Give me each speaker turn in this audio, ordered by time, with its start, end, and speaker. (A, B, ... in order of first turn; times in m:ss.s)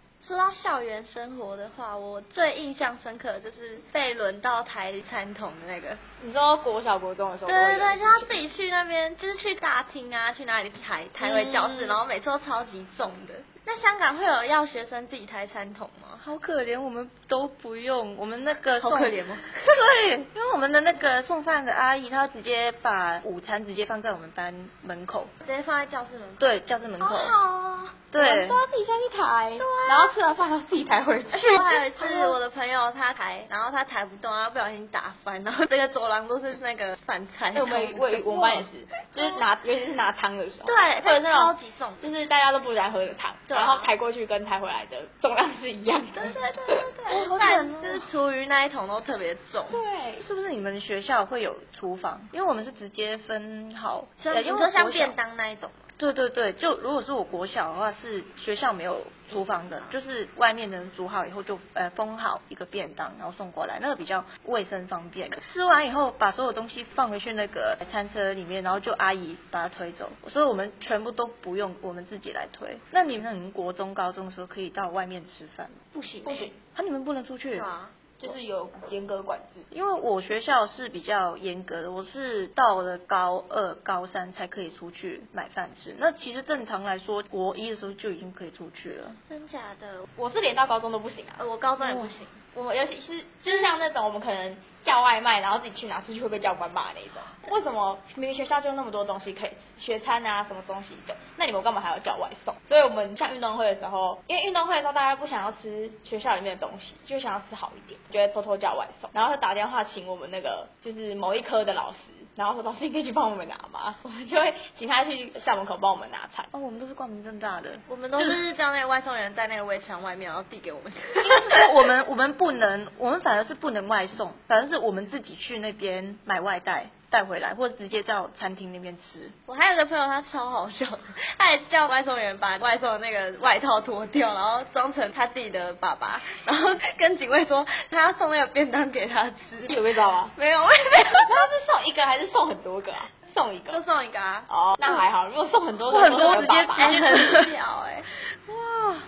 0:00.2-0:06.0 A
0:06.2-0:08.4 B
0:07.5-0:16.2 A
0:11.2-0:12.0 B
0:16.2-0:25.3 C
0:18.8-0:19.7 A
0:25.4-0:26.4 A
0:26.4-0:27.4 C
0:27.0-0:28.0 A
0:28.1-0:28.6 C
0:28.2-0:32.4 B
0:29.6-0:30.1 A
0:31.3-0:38.6 A
0:37.5-0:46.9 B
0:40.6-0:42.1 A
0:43.5-0:43.9 A
0:46.2-0:49.8 A
0:47.1-0:48.0 C
0:49.7-0:50.2 B
0:50.2-0:55.2 C
0:54.2-0:55.9 A
0:56.0-1:15.8 C
0:59.3-0:59.9 A
1:15.9-1:16.5 A
1:16.2-1:16.5 B
1:16.6-1:17.7 C
1:17.5-1:18.0 A
1:18.2-1:19.7 B
1:19.7-1:29.2 C
1:29.2-1:30.1 A
1:30.2-1:31.4 B
1:31.4-1:32.4 A
1:31.8-1:32.1 C
1:32.5-1:56.5 B
1:33.5-1:33.7 A
1:56.5-1:58.4 C
1:57.9-2:01.7 A
2:01.2-2:09.3 C
2:09.4-2:19.8 A
2:19.7-2:20.3 B
2:20.3-2:21.5 A
2:21.2-2:23.8 B
2:23.7-2:24.5 A
2:24.5-2:27.1 B
2:25.9-2:27.5 C
2:26.0-2:28.1 A
2:28.5-2:29.0 C